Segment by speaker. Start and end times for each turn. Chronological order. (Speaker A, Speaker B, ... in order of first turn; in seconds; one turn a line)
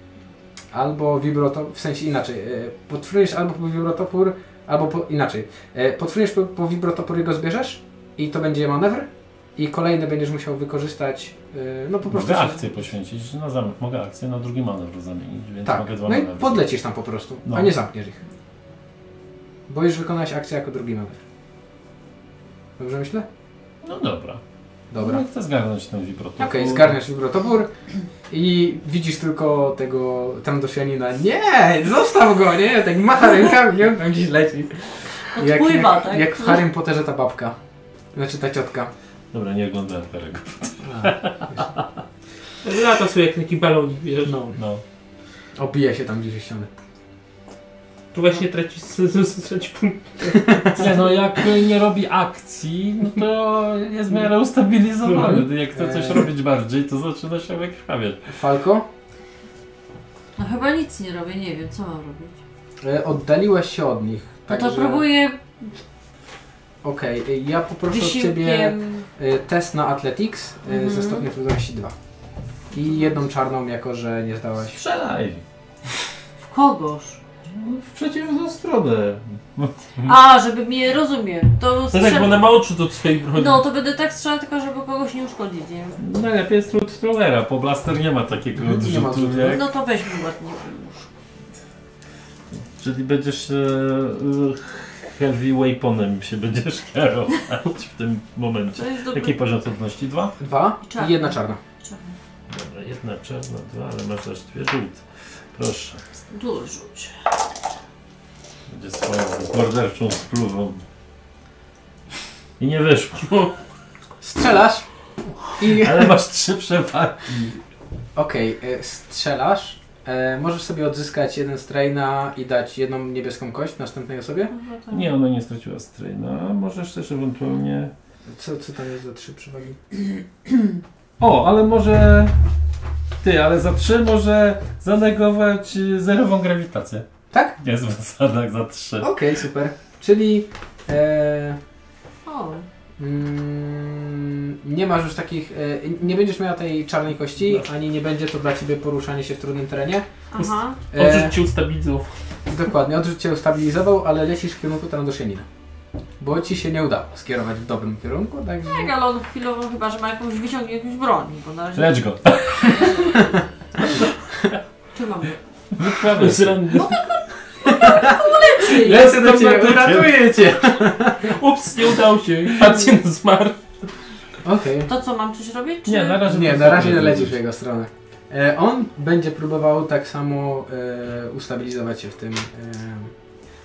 Speaker A: 0.7-12.7
Speaker B: 12.1-16.7
Speaker A: 15.6-18.2
Speaker B: 17.4-17.7
Speaker A: 19.7-21.2
Speaker A: 22.8-23.3
Speaker B: 23.8-24.4
Speaker A: 24.9-25.2
Speaker B: 25.0-27.0
Speaker A: 26.4-27.7
Speaker A: 28.3-37.5
Speaker C: 35.3-36.6
Speaker A: 38.1-38.9
Speaker B: 39.3-41.6
Speaker A: 40.8-41.2
Speaker D: 42.6-44.3
Speaker A: 44.2-44.6
Speaker B: 44.6-44.8
Speaker A: 45.5-46.7
Speaker D: 48.1-50.9
Speaker A: 50.4-50.7
Speaker B: 50.8-58.2
Speaker A: 55.2-56.3
Speaker A: 58.3-58.9
Speaker C: 60.4-62.3
Speaker A: 62.8-65.0
Speaker C: 64.5-65.7
Speaker A: 66.8-71.9
Speaker C: 67.9-69.0
Speaker C: 70.7-71.2
Speaker A: 72.7-74.8
Speaker C: 72.8-73.1
Speaker B: 74.7-75.4
Speaker C: 76.5-77.2
Speaker B: 77.5-80.1
Speaker C: 80.0-82.5
Speaker D: 81.9-83.6
Speaker C: 83.3-86.0
Speaker B: 86.0-89.6
Speaker A: 88.6-89.6
Speaker C: 89.4-91.1
Speaker B: 92.5-100.3
Speaker C: 98.8-99.3
Speaker A: 100.4-101.6
Speaker C: 100.9-102.2
Speaker B: 102.5-106.0
Speaker C: 106.3-107.2
Speaker B: 108.7-110.8
Speaker B: 112.6-113.5
Speaker A: 114.2-114.8
Speaker A: 115.6-116.1
Speaker B: 115.6-117.6
Speaker A: 118.2-124.5
Speaker C: 124.5-125.1
Speaker B: 124.9-127.9
Speaker A: 128.3-129.8
Speaker B: 131.2-132.3
Speaker B: 133.2-137.1
Speaker A: 137.3-137.6
Speaker B: 137.6-139.1
Speaker A: 139.0-141.6
Speaker C: 142.2-142.7
Speaker A: 143.0-150.1
Speaker C: 150.3-150.8
Speaker D: 150.4-152.2
Speaker A: 150.9-151.3
Speaker A: 152.5-155.5
Speaker A: 156.2-158.9
Speaker C: 158.6-161.9
Speaker B: 161.7-163.0
Speaker C: 162.6-163.1
Speaker C: 164.9-165.4
Speaker B: 165.7-166.9
Speaker D: 166.1-167.0
Speaker C: 166.7-169.1
Speaker A: 167.6-171.4
Speaker B: 168.8-170.3
Speaker D: 171.2-173.6
Speaker A: 174.4-174.9
Speaker C: 174.9-176.2
Speaker B: 175.8-177.4
Speaker A: 176.2-183.1